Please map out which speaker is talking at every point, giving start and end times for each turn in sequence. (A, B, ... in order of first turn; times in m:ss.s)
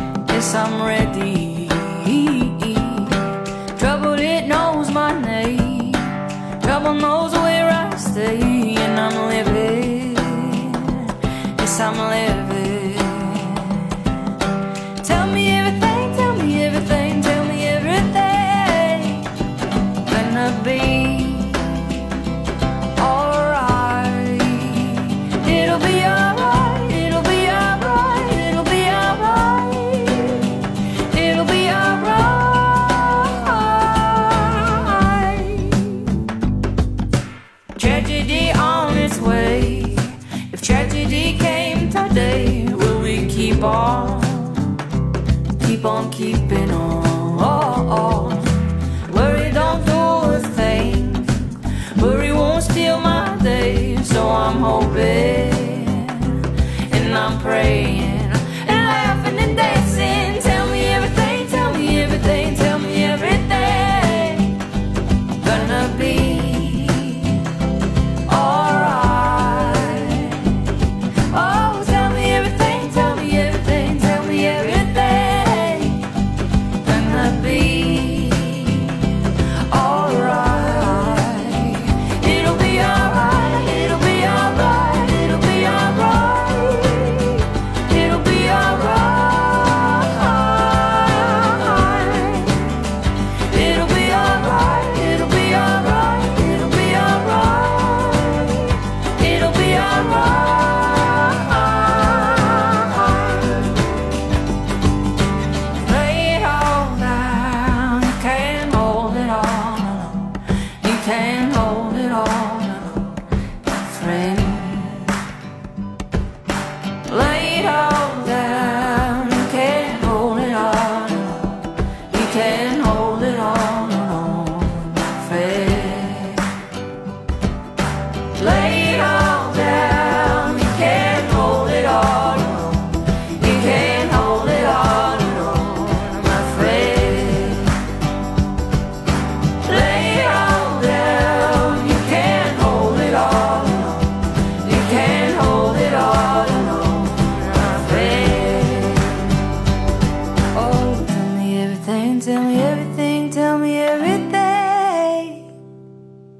0:00.3-0:14.0 A
0:15.0-0:19.2 A
0:20.1-0:21.8 A
0:23.0-0:30.5 A
0:31.1-0:36.1 A
0:37.8-0:44.8 A
0:45.6-1:04.6 A
1:05.4-1:07.4 A
1:08.3-1:10.6 A
1:11.3-1:16.0 A
1:16.8-1:19.0 A
1:19.7-1:32.7 A
1:33.5-1:43.7 A
1:45.8-1:53.1 A
1:53.8-1:55.1 A
1:57.1-2:01.6 A
2:02.1-2:06.5 A
2:08.4-2:17.8 A
2:19.6-2:29.2 A
2:30.5-2:35.4 A